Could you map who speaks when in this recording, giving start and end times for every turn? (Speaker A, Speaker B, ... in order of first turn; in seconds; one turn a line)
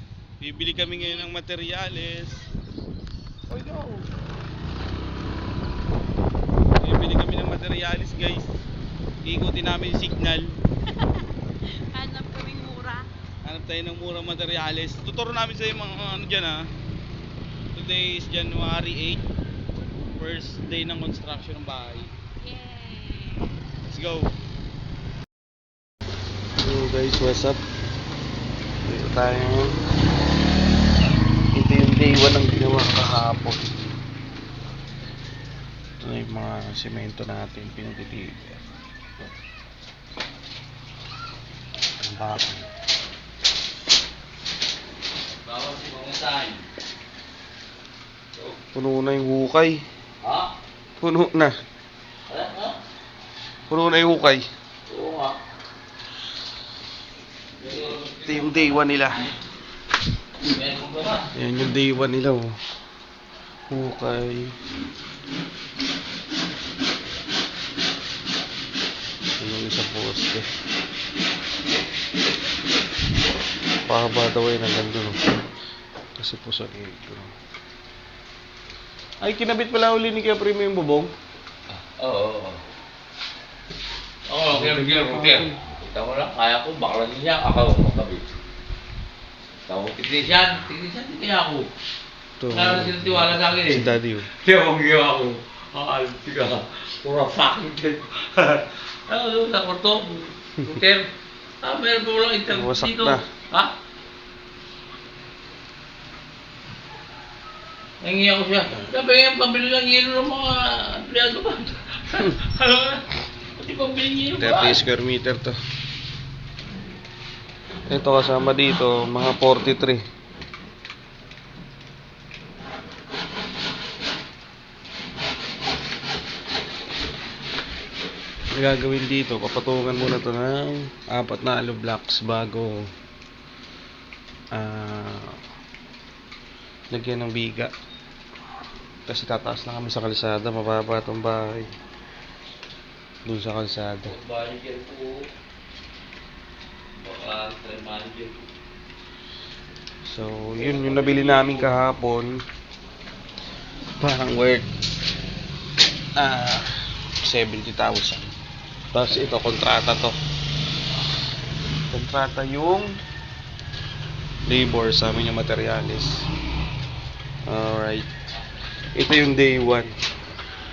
Speaker A: 0.4-2.4
Speaker B: 0.9-1.3
Speaker A: 3.5-4.0
Speaker A: 6.8-8.5
Speaker A: 9.2-10.5
Speaker B: 11.7-13.1
Speaker A: 13.4-16.6
Speaker A: 17.8-19.2
Speaker A: 20.2-22.1
Speaker B: 22.4-23.5
Speaker A: 23.9-24.3
Speaker C: 26.6-27.6
Speaker C: 28.8-29.8
Speaker C: 31.6-33.8
Speaker C: 36.0-38.6
Speaker C: 42.0-42.7
Speaker D: 45.4-46.6
Speaker C: 48.7-49.8
Speaker D: 50.2-50.5
Speaker C: 51.0-51.5
Speaker D: 52.3-52.8
Speaker C: 53.7-54.5
Speaker D: 54.9-55.4
Speaker D: 57.6-59.1
Speaker C: 58.2-59.3
Speaker D: 60.4-61.3
Speaker C: 61.4-62.6
Speaker C: 63.7-64.5
Speaker C: 69.4-70.5
Speaker C: 73.9-75.2
Speaker C: 76.2-77.3
Speaker C: 79.2-81.1
Speaker D: 81.7-82.6
Speaker D: 84.3-88.2
Speaker C: 84.5-85.6
Speaker D: 89.7-91.7
Speaker C: 92.4-94.3
Speaker D: 92.5-93.9
Speaker D: 94.4-101.1
Speaker D: 101.6-103.7
Speaker C: 102.5-103.2
Speaker D: 108.0-113.0
Speaker D: 113.6-114.8
Speaker C: 114.4-115.6
Speaker C: 117.9-120.0
Speaker C: 128.6-132.9
Speaker C: 134.5-135.4
Speaker C: 136.9-137.7
Speaker C: 139.1-141.7
Speaker C: 143.2-144.2
Speaker D: 144.1-145.2
Speaker D: 147.0-148.4
Speaker C: 150.1-152.4
Speaker D: 150.6-151.7
Speaker C: 154.0-154.7
Speaker C: 156.2-156.7
Speaker C: 157.2-158.3
Speaker C: 158.9-160.2
Speaker C: 161.9-162.9
Speaker C: 164.5-166.2
Speaker C: 167.5-168.1
Speaker C: 169.0-169.9